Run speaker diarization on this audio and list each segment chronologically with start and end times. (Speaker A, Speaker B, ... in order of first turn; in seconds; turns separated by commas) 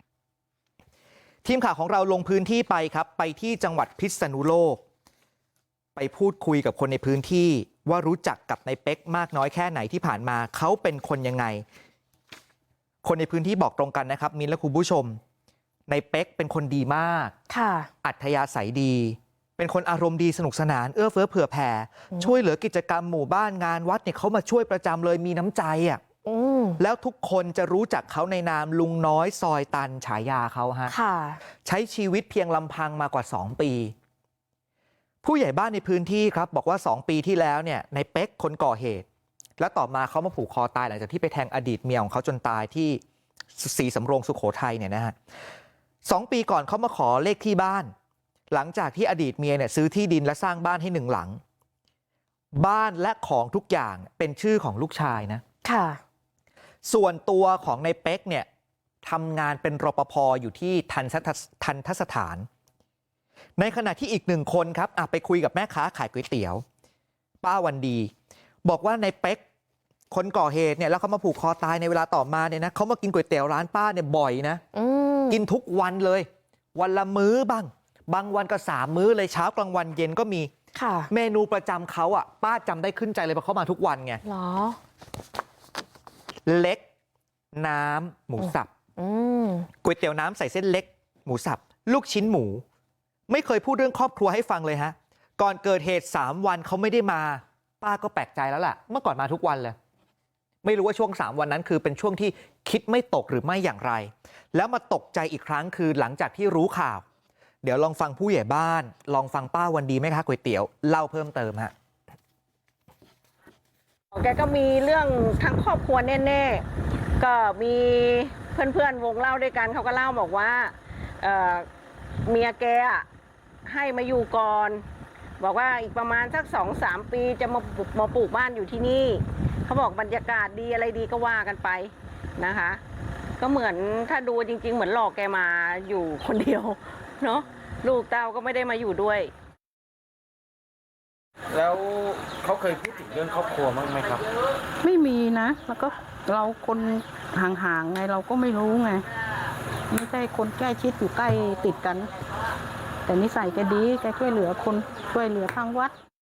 Speaker A: 1.4-4.8, Speaker A: 6.0-11.6, Speaker A: 13.0-15.2, Speaker A: 15.9-17.3, Speaker B: 17.5-17.9, Speaker A: 18.0-26.0, Speaker B: 26.2-26.8, Speaker A: 26.8-30.9, Speaker B: 30.9-31.4, Speaker A: 31.6-33.9, Speaker A: 35.2-39.0, Speaker A: 39.6-43.0, Speaker A: 43.6-45.1, Speaker A: 46.0-47.9, Speaker A: 48.5-51.4, Speaker A: 52.5-55.4, Speaker B: 55.7-56.0, Speaker A: 56.9-58.5, Speaker A: 59.0-62.5, Speaker A: 63.6-66.6, Speaker A: 67.4-68.1, Speaker A: 68.6-69.4, Speaker A: 70.1-74.6, Speaker B: 74.7-75.4, Speaker A: 75.3-80.5, Speaker B: 80.8-81.1, Speaker A: 81.1-84.2, Speaker B: 84.2-84.8, Speaker A: 86.5-86.8, Speaker A: 87.5-88.7, Speaker B: 89.0-89.7, Speaker A: 89.8-92.6, Speaker A: 93.3-99.8, Speaker A: 100.6-107.0, Speaker A: 107.6-111.7, Speaker C: 114.1-116.7, Speaker C: 117.2-121.7, Speaker C: 122.2-123.1, Speaker C: 123.6-124.8, Speaker C: 125.4-132.8, Speaker C: 133.4-139.3, Speaker D: 141.5-144.2, Speaker E: 144.8-149.0, Speaker E: 149.9-152.1, Speaker E: 153.1-155.9